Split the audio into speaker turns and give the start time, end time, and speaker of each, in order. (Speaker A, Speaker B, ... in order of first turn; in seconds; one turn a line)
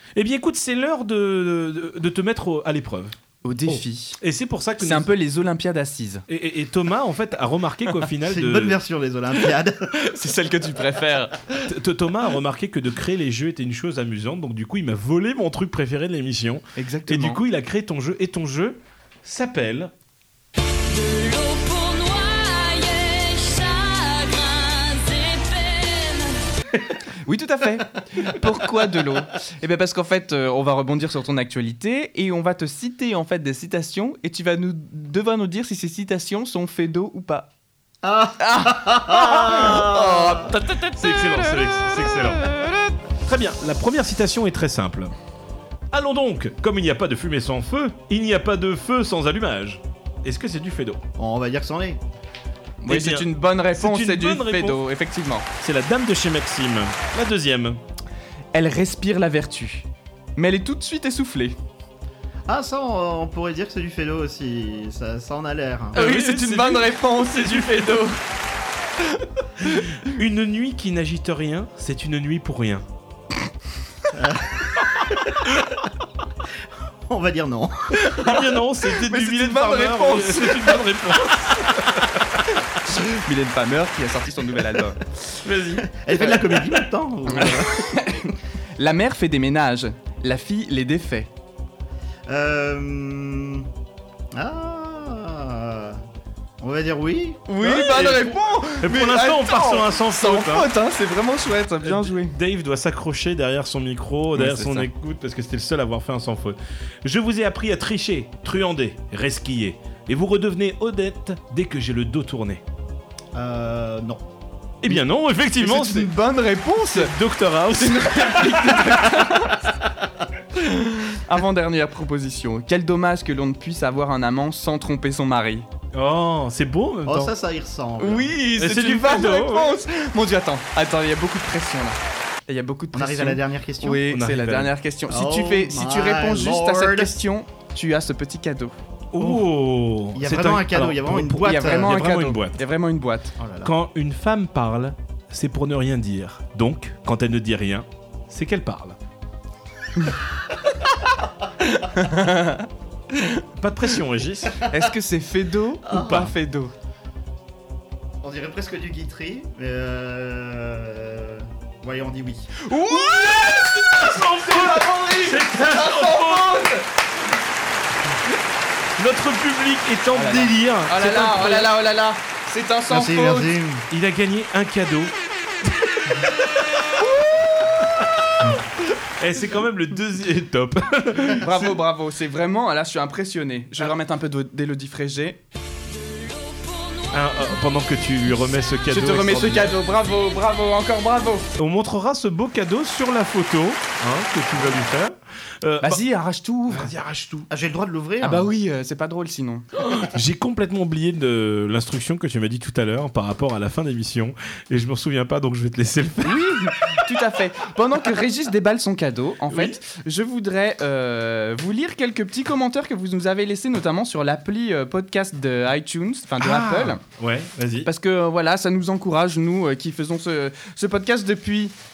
Speaker A: 0.1-3.1
Speaker B: 3.4-4.2
Speaker A: 3.7-5.1
Speaker B: 4.8-6.2
Speaker A: 6.3-8.8
Speaker C: 8.2-9.9
Speaker B: 9.9-11.7
Speaker A: 11.7-19.9
Speaker B: 16.8-17.4
Speaker D: 20.9-26.3
Speaker B: 27.2-37.5
Speaker C: 38.0-40.5
Speaker B: 38.4-42.6
Speaker A: 40.5-42.4
Speaker A: 43.2-45.1
Speaker A: 45.9-51.0
Speaker C: 51.2-52.0
Speaker B: 52.8-55.5
Speaker A: 52.9-54.8
Speaker A: 55.5-57.8
Speaker B: 58.5-61.5
Speaker C: 62.5-66.0
Speaker A: 65.9-68.0
Speaker B: 65.9-68.2
Speaker A: 69.6-72.8
Speaker C: 74.1-75.6
Speaker C: 77.0-78.3
Speaker A: 78.1-82.4
Speaker B: 78.9-81.0
Speaker B: 82.8-85.0
Speaker A: 85.4-85.9
Speaker C: 85.8-88.1
Speaker B: 87.3-91.3
Speaker C: 92.3-93.7
Speaker C: 94.3-96.0
Speaker C: 96.6-97.5
Speaker B: 97.5-102.3
Speaker A: 97.6-100.7
Speaker A: 101.8-112.6
Speaker B: 104.3-104.9
Speaker C: 113.3-114.2
Speaker A: 114.8-116.1
Speaker B: 115.6-117.2
Speaker A: 116.9-119.2
Speaker B: 117.7-119.6
Speaker B: 120.5-125.7
Speaker A: 125.9-127.3
Speaker C: 127.0-128.3
Speaker B: 128.0-138.8
Speaker A: 128.6-129.8
Speaker C: 132.9-134.0
Speaker A: 134.1-134.7
Speaker C: 135.1-137.1
Speaker A: 139.1-142.6
Speaker C: 140.1-142.0
Speaker B: 141.4-143.3
Speaker C: 143.4-143.7
Speaker A: 143.6-149.0
Speaker B: 151.6-153.4
Speaker A: 153.6-154.6
Speaker B: 154.6-156.7
Speaker C: 155.9-156.3
Speaker A: 155.9-156.3
Speaker C: 158.2-162.7
Speaker B: 162.6-166.8
Speaker A: 162.9-166.8
Speaker A: 169.0-171.7
Speaker B: 170.1-173.5
Speaker C: 172.9-173.9
Speaker A: 173.9-175.1
Speaker A: 179.2-181.7
Speaker B: 181.4-185.4
Speaker D: 186.1-187.0
Speaker A: 187.1-189.8
Speaker B: 188.9-191.5
Speaker A: 191.6-196.0
Speaker B: 195.8-196.9
Speaker A: 196.7-197.5
Speaker C: 197.5-198.5
Speaker B: 198.2-199.7
Speaker A: 199.8-207.1
Speaker B: 206.2-217.0
Speaker A: 209.5-209.8
Speaker A: 216.4-217.9
Speaker B: 217.8-221.7